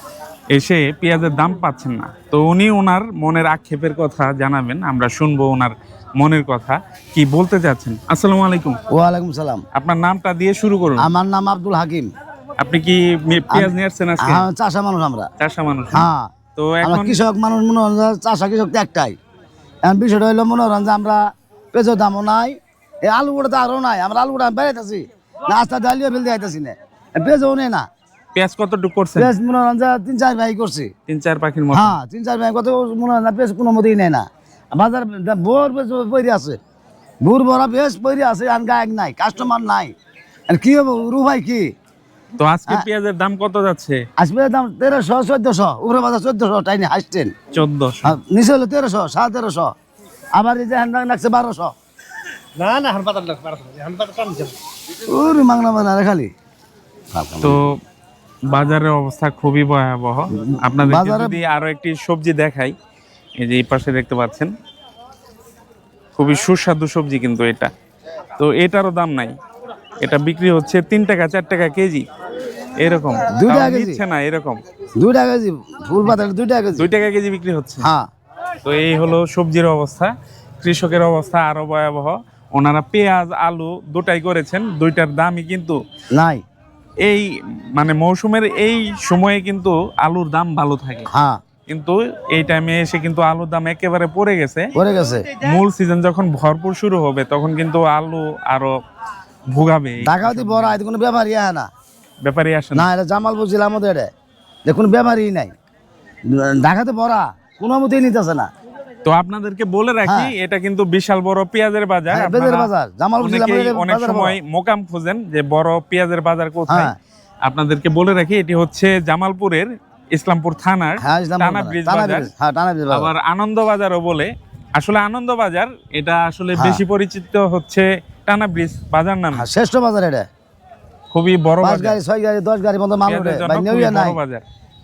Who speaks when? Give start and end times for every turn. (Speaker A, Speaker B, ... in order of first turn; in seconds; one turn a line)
Speaker A: 0.5-8.8
Speaker B: 8.9-9.6
Speaker A: 9.7-11.1
Speaker B: 11.0-12.1
Speaker A: 12.6-14.5
Speaker B: 13.5-15.3
Speaker A: 15.4-17.2
Speaker B: 15.9-16.3
Speaker B: 16.8-19.1
Speaker B: 19.8-21.2
Speaker B: 21.7-27.8
Speaker A: 28.3-29.3
Speaker B: 29.1-30.9
Speaker A: 31.1-32.0
Speaker B: 31.7-36.6
Speaker B: 37.2-39.9
Speaker B: 40.5-41.7
Speaker A: 42.4-44.0
Speaker B: 44.2-47.3
Speaker A: 47.5-48.2
Speaker B: 48.0-49.7
Speaker B: 50.3-51.7
Speaker C: 52.5-54.6
Speaker B: 55.1-56.3
Speaker B: 57.1-57.7
Speaker A: 57.4-57.8
Speaker A: 58.5-62.7
Speaker B: 60.4-61.4
Speaker A: 63.4-64.5
Speaker A: 66.1-67.7
Speaker A: 68.3-69.3
Speaker A: 70.0-72.0
Speaker A: 72.8-74.6
Speaker B: 73.2-74.0
Speaker B: 75.0-76.9
Speaker A: 76.8-77.9
Speaker A: 78.6-85.8
Speaker B: 86.1-86.4
Speaker A: 87.0-91.1
Speaker B: 91.1-91.4
Speaker A: 91.7-94.7
Speaker B: 94.8-95.3
Speaker A: 95.4-98.8
Speaker A: 99.5-100.8
Speaker B: 100.0-101.7
Speaker A: 102.2-102.9
Speaker B: 102.7-104.1
Speaker B: 104.7-105.5
Speaker B: 106.3-108.5
Speaker A: 109.0-112.7
Speaker B: 110.0-110.3
Speaker B: 112.1-114.3
Speaker A: 113.2-116.9
Speaker B: 116.7-116.9
Speaker A: 117.5-122.3
Speaker B: 121.0-123.1
Speaker A: 122.9-129.4
Speaker B: 126.5-126.8
Speaker B: 129.3-130.2
Speaker A: 131.1-132.0
Speaker B: 131.6-134.2
Speaker A: 133.1-134.4